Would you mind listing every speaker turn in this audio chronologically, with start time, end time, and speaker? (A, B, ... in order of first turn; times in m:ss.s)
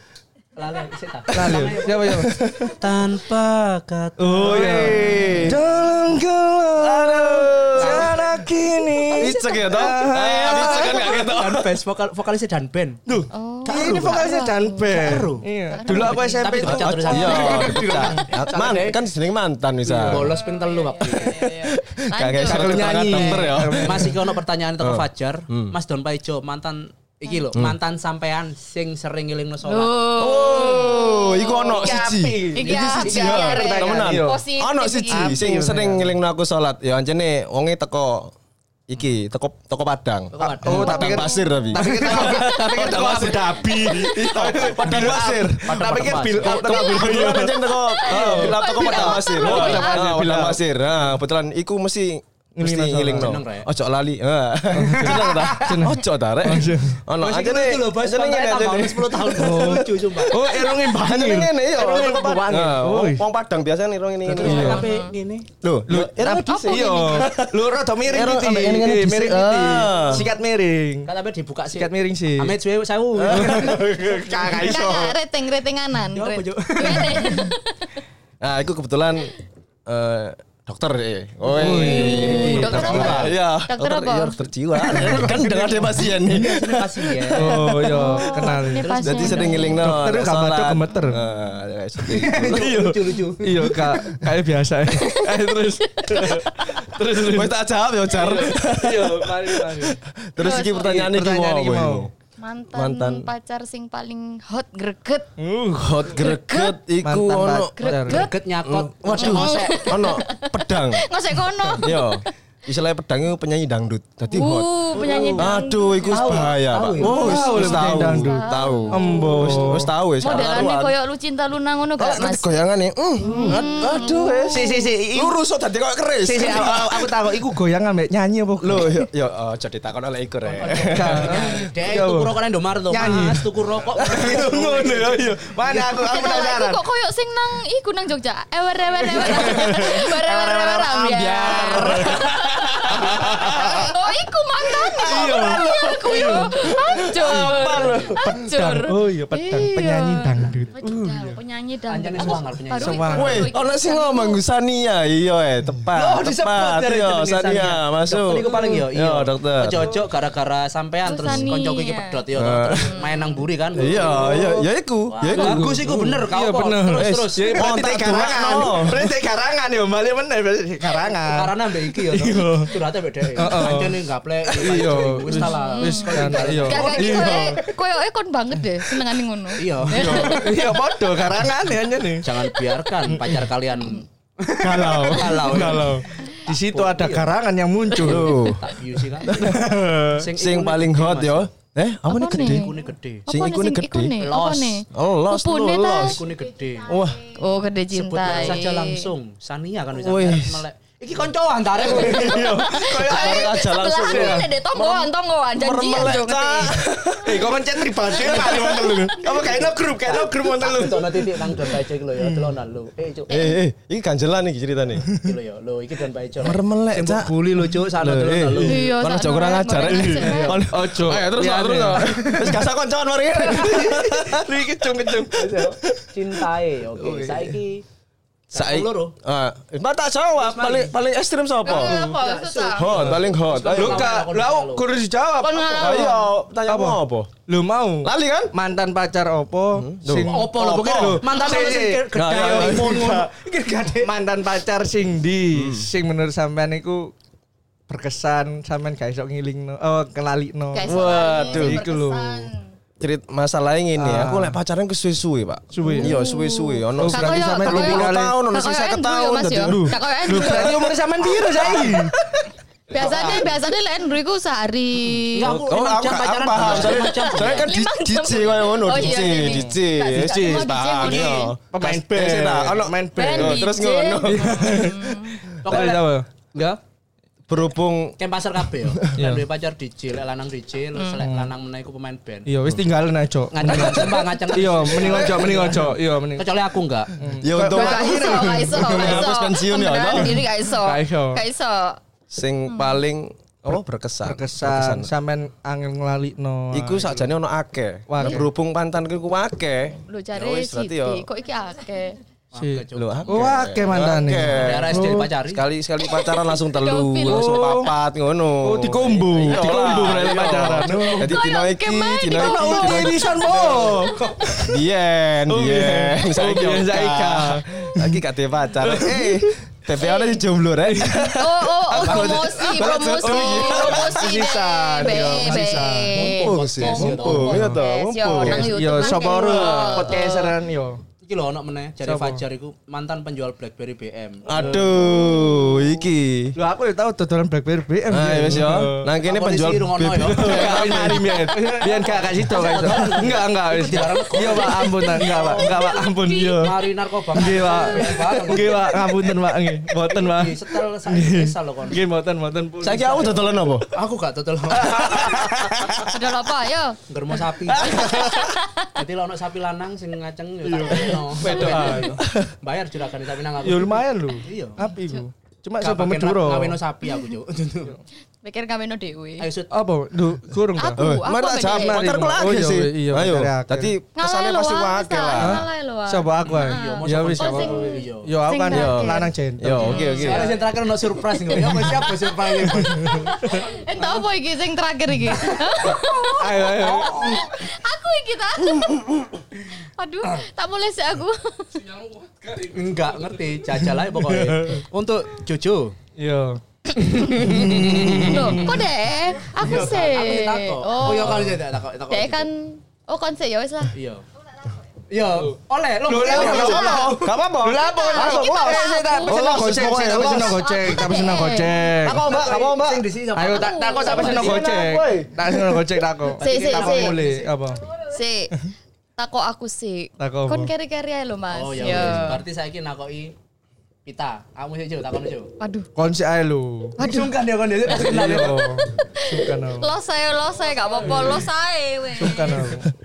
0:00.6-0:05.2 A
0:01.3-0:02.4 B
0:01.4-0:02.8 C
0:04.2-0:11.3 B
0:04.4-0:05.6 C
0:05.1-0:05.4 D
0:06.8-0:08.1 C
0:07.7-0:08.3 A
0:09.2-0:11.8 C
0:10.4-0:13.0 A
0:13.0-0:18.2 B
0:13.3-0:16.6 D
0:13.6-0:14.3 A
0:14.9-0:19.0 A
0:16.6-0:20.4 C
0:17.1-0:17.9 D
0:19.8-0:21.4 A
0:19.9-0:20.2 B
0:20.4-0:23.7 D
0:21.0-0:24.2 C
0:22.4-0:24.2 B
0:23.8-0:30.4 A
0:24.8-0:25.8 C
0:29.6-0:35.4 D
0:30.1-0:38.3 C
0:31.7-0:33.8 A
0:31.8-0:32.6 B
0:33.3-0:34.4 B
0:35.1-0:36.2 B
0:38.9-1:04.8 C
0:40.3-0:42.6 A
0:40.4-0:50.6 B
0:40.7-0:41.7 D
0:44.8-0:46.8 A
0:46.8-0:50.1 D
0:48.8-0:49.7 A
0:52.6-0:53.4 B
0:53.1-0:53.7 A
0:54.7-0:57.0 B
0:54.8-0:55.8 A
0:57.2-1:00.4 A
0:59.3-1:03.2 B
1:04.2-1:05.5 A
1:04.3-1:04.9 B
1:04.5-1:05.1 D
1:05.6-1:10.3 C
1:05.9-1:11.1 B
1:06.4-1:07.3 D
1:11.0-1:13.9 A
1:11.8-1:12.6 B
1:13.2-1:14.8 C
1:13.3-1:15.2 B
1:14.5-1:18.0 D
1:16.1-1:17.5 A
1:18.4-1:19.3 C
1:19.8-1:28.0 C
1:21.5-1:23.3 A
1:21.5-1:23.3 B
1:21.8-1:24.4 D
1:24.9-1:29.7 A
1:24.9-1:25.3 B
1:27.3-1:31.2 B
1:27.9-1:30.0 D
1:29.0-1:32.8 C
1:32.1-1:33.8 A
1:32.3-1:37.5 B
1:35.9-1:36.4 D
1:37.2-1:42.1 C
1:38.1-1:40.0 B
1:40.4-1:41.0 D
1:40.8-1:42.1 B
1:42.4-1:45.3 D
1:42.7-1:43.3 C
1:45.4-1:46.3 B
1:45.7-1:47.7 C
1:46.1-1:46.8 D
1:47.0-1:48.3 B
1:47.8-1:48.3 D
1:47.8-1:50.0 A
1:48.6-1:51.1 C
1:49.1-1:52.2 D
1:51.8-2:00.9 C
1:54.3-1:56.5 D
1:54.9-1:55.5 A
1:55.1-1:55.4 B
1:56.1-1:58.0 A
1:57.0-1:59.9 B
1:57.1-2:02.6 D
2:02.0-2:07.1 C
2:03.2-2:03.6 B
2:03.2-2:04.8 D
2:04.5-2:05.4 B
2:06.2-2:09.1 B
2:08.6-2:11.6 C
2:10.4-2:15.7 A
2:10.9-2:12.3 B
2:12.9-2:16.8 B
2:15.9-2:34.4 D
2:19.1-2:23.9 B
2:19.3-2:19.8 A
2:21.4-2:23.9 C
2:24.7-2:28.4 C
2:25.0-2:26.4 B
2:27.2-2:28.2 A
2:28.4-2:31.3 B
2:31.9-2:33.4 A
2:32.8-2:33.5 B
2:33.1-2:39.9 C
2:35.9-2:47.6 A
2:38.5-2:38.8 B
2:41.0-2:42.2 D
2:42.3-2:42.9 C
2:42.8-2:43.4 D
2:43.8-2:46.1 C
2:44.0-2:44.5 B
2:45.3-2:52.7 B
2:47.0-2:49.1 C
2:51.3-2:57.5 A
2:53.4-2:57.6 B
2:55.3-3:00.6 D
2:57.0-2:57.5 C
2:59.6-3:00.6 A
2:59.9-3:02.4 B
3:00.0-3:00.3 C
3:02.2-3:07.3 A
3:03.0-3:03.5 B
3:04.6-3:05.8 C
3:04.7-3:08.4 B
3:08.0-3:09.7 C
3:08.0-3:09.4 A
3:09.2-3:10.2 B
3:10.1-3:11.5 A
3:10.3-3:14.2 C
3:12.1-3:16.3 D
3:12.4-3:13.3 A
3:14.2-3:14.8 A
3:14.9-3:16.2 C
3:16.0-3:16.9 A
3:16.9-3:17.2 C
3:17.2-3:19.1 D
3:17.9-3:22.6 A
3:19.9-3:20.6 C
3:21.8-3:29.7 C
3:22.0-3:26.8 D
3:22.3-3:23.4 B
3:24.0-3:24.5 B
3:27.2-3:31.6 B
3:28.4-3:28.7 D
3:29.2-3:33.3 A
3:32.2-3:32.5 B
3:33.3-3:35.1 C
3:33.3-3:33.6 D
3:35.2-3:38.9 A
3:36.4-3:44.5 C
3:38.6-3:40.6 D
3:39.9-3:42.1 B
3:40.2-3:40.6 A
3:41.3-3:42.7 A
3:43.4-3:44.1 A
3:43.4-3:45.6 B
3:45.2-3:45.7 C
3:45.4-3:47.8 A
3:47.0-3:47.6 C
3:48.5-3:49.1 A
3:48.5-3:52.0 C
3:50.4-3:50.9 A
3:51.6-3:53.0 D
3:51.6-3:54.8 A
3:52.8-3:54.1 C
3:53.0-3:56.1 B
3:55.4-3:56.3 D
3:55.7-3:57.3 C
3:56.6-4:03.3 B
3:58.0-3:58.5 C
3:59.7-4:01.2 C
4:00.2-4:04.1 A
4:02.1-4:03.2 C
4:04.0-4:07.1 B
4:05.5-4:05.9 C
4:07.9-4:12.5 B
4:10.7-4:12.7 D
4:10.8-4:11.8 C
4:13.0-4:22.1 C
4:14.0-4:14.6 B
4:15.7-4:16.2 B
4:15.9-4:20.8 D
4:17.0-4:18.4 B
4:19.6-4:22.1 B
4:22.9-4:25.5 D
4:22.9-4:23.5 A
4:25.0-4:27.7 A
4:25.4-4:35.0 C
4:26.8-4:31.5 D
4:29.0-4:33.6 B
4:33.2-4:35.4 D
4:34.2-4:36.2 B
4:35.6-4:36.8 A
4:35.7-4:35.9 C
4:37.5-4:38.2 C
4:38.2-4:42.5 A
4:38.7-4:39.2 C
4:39.2-4:39.4 B
4:41.2-4:41.5 B
4:42.4-4:46.5 B
4:43.5-4:47.1 A
4:47.1-4:49.3 B
4:47.3-4:50.4 C
4:47.5-4:52.0 D
4:50.4-4:51.4 B
4:52.3-4:55.1 C
4:52.7-4:53.0 D
4:53.7-4:57.2 B
4:56.7-5:01.2 C
4:58.1-4:58.5 B
5:00.1-5:02.2 D
5:02.5-5:03.4 A
5:02.6-5:05.3 B
5:02.9-5:24.3 C
5:04.5-5:05.6 A
5:06.7-5:07.6 D
5:07.2-5:07.9 B
5:08.6-5:11.4 B
5:11.2-5:14.0 D
5:12.3-5:14.8 B
5:13.9-5:14.5 A
5:15.5-5:18.2 B
5:18.8-5:19.5 B
5:20.0-5:20.4 D
5:20.8-5:21.6 B
5:21.3-5:30.5 D
5:22.0-5:22.5 A
5:22.8-5:27.8 B
5:25.1-5:27.8 A
5:26.2-5:30.1 C
5:28.3-5:31.0 B
5:31.2-5:35.0 A
5:32.0-5:32.4 B
5:34.4-5:36.5 C
5:34.5-5:35.0 B
5:35.0-5:35.8 D
5:36.6-5:39.1 B
5:38.1-5:41.5 C
5:39.2-5:49.1 A
5:40.2-5:46.8 B
5:42.6-5:43.3 C
5:47.3-5:53.5 B
5:50.0-5:52.0 A
5:52.8-5:53.9 C
5:52.9-5:53.4 A
5:53.9-5:55.4 A
5:54.7-5:56.0 B
5:55.2-5:56.0 C
5:55.9-5:57.0 D
5:57.1-5:58.0 A
5:57.7-5:58.6 C
5:57.8-5:58.9 D
5:58.9-6:04.8 A
6:00.6-6:02.2 B
6:01.0-6:02.5 C
6:03.6-6:06.8 B
6:04.8-6:05.2 D
6:05.8-6:08.0 A
6:07.0-6:07.3 D
6:08.4-6:09.5 D
6:09.4-6:09.7 A
6:09.7-6:11.0 B
6:10.8-6:12.0 D
6:11.0-6:15.6 C
6:11.6-6:13.9 B
6:14.2-6:20.6 D
6:15.4-6:20.1 B
6:16.4-6:18.3 A
6:18.7-6:20.6 C
6:20.1-6:23.3 A
6:21.5-6:22.0 D
6:21.6-6:22.0 B
6:22.7-6:29.1 D
6:22.8-6:23.6 B
6:24.0-6:24.2 A
6:25.4-6:25.9 A
6:26.4-6:27.4 B
6:29.8-6:31.9 D
6:32.6-6:36.0 A
6:33.7-6:34.8 B
6:36.2-6:36.6 B
6:36.9-6:38.7 A
6:37.0-6:41.6 D
6:37.4-6:38.8 B
6:39.5-6:42.4 A
6:42.1-6:43.9 D
6:43.9-6:44.2 A
6:45.1-6:48.4 A
6:46.1-6:47.1 B
6:46.2-6:50.9 C
6:46.3-6:47.1 D
6:47.6-6:49.6 D
6:47.6-6:52.3 B
6:50.6-6:51.9 D
6:52.0-6:53.0 C
6:52.0-6:54.7 A
6:53.3-6:57.8 B
6:53.5-6:54.6 D
6:54.2-6:56.0 C
6:56.4-6:57.5 A
6:56.4-6:57.2 D
6:58.0-6:58.5 D
6:59.2-7:02.4 D
7:00.2-7:00.7 B
7:01.5-7:03.3 A
7:04.0-7:05.5 A
7:05.6-7:05.9 D
7:06.0-7:07.1 B
7:07.0-7:08.7 A
7:07.0-7:07.3 D
7:07.8-7:09.9 B
7:09.1-7:12.7 D
7:12.2-7:12.9 B